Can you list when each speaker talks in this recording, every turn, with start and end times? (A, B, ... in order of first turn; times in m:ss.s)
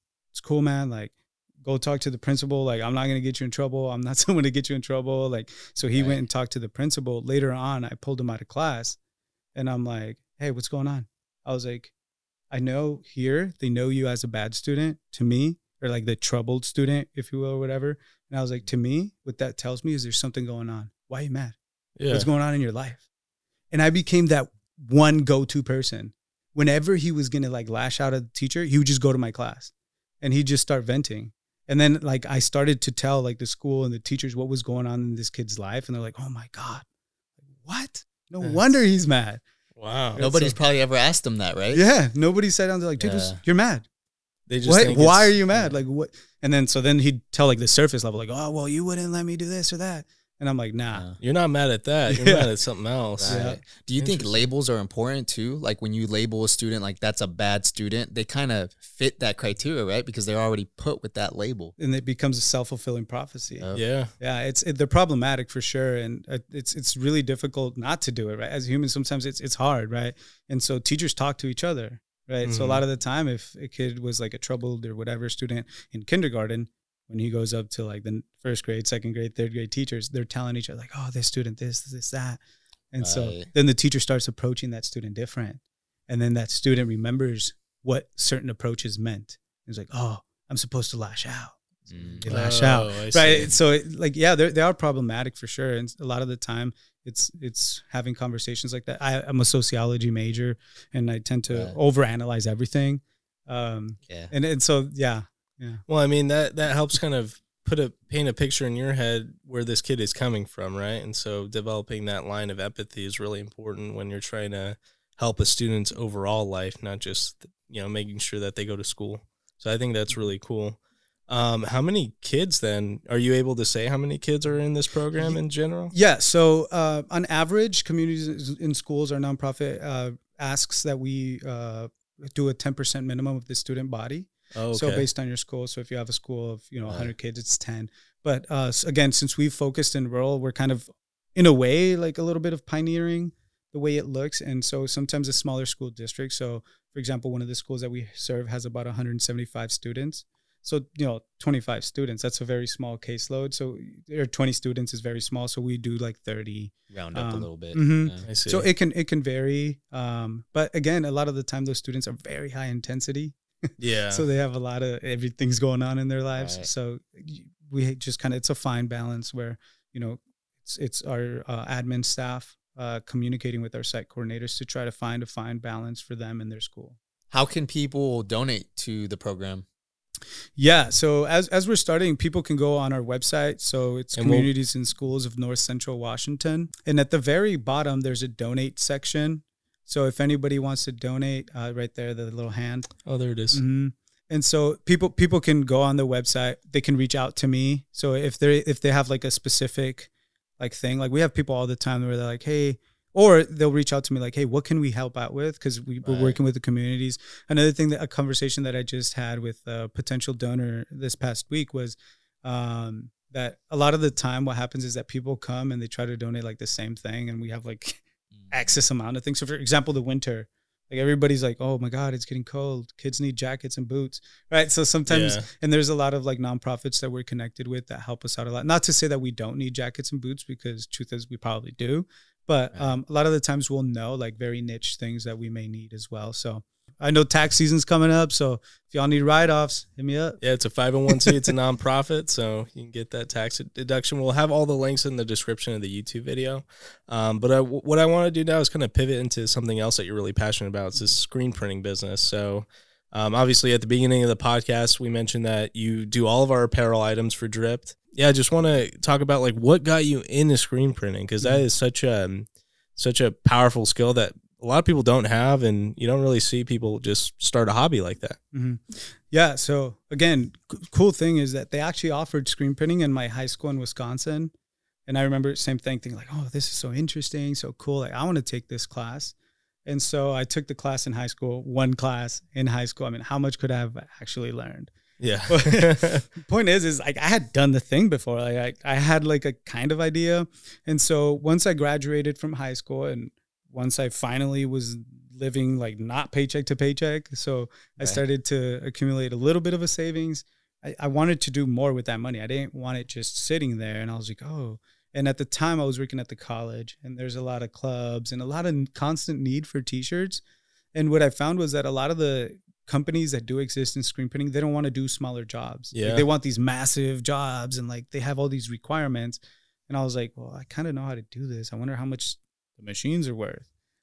0:00.3-0:09.0 A
0:05.9-0:06.2 B
0:09.6-0:11.9 A
0:12.5-0:21.6 A
0:22.0-0:22.3 C
0:22.1-0:23.0 A
0:23.7-0:36.8 A
0:37.6-0:39.4 A
0:39.8-0:40.2 C
0:40.2-0:40.6 A
0:40.2-0:41.8 B
0:41.7-0:43.8 A
0:43.0-0:43.4 B
0:44.5-0:45.4 C
0:44.6-0:51.1 A
0:45.5-0:45.8 B
0:50.9-0:51.2 B
0:51.2-0:53.5 C
0:52.1-0:52.5 A
0:53.2-1:01.8 B
0:53.3-0:53.6 A
0:54.0-0:54.5 C
1:01.8-1:45.8 A
1:03.6-1:03.8 B
1:03.7-1:04.1 C
1:12.4-1:12.8 C
1:23.0-1:23.5 B
1:31.9-1:32.4 B
1:32.3-1:33.5 C
1:41.5-1:41.8 B
1:45.9-2:05.9 C
2:05.2-2:43.4 A
2:14.5-2:15.0 C
2:16.9-2:17.1 B
2:36.9-2:38.3 B
2:38.2-2:38.7 C
2:43.8-2:44.2 C
2:44.1-2:57.0 A
2:46.4-2:46.7 B
2:57.3-2:59.6 B
3:00.6-3:12.9 A
3:04.1-3:04.5 C
3:13.1-3:13.6 C
3:13.5-4:00.4 A
3:26.0-3:26.4 B
3:45.1-3:45.5 C
4:00.4-4:28.4 C
4:28.5-4:34.5 A
4:35.1-4:39.4 A
4:39.9-4:44.9 A
4:45.2-4:46.2 C
4:45.5-5:10.4 A
5:10.9-5:23.6 A
5:15.9-5:16.3 C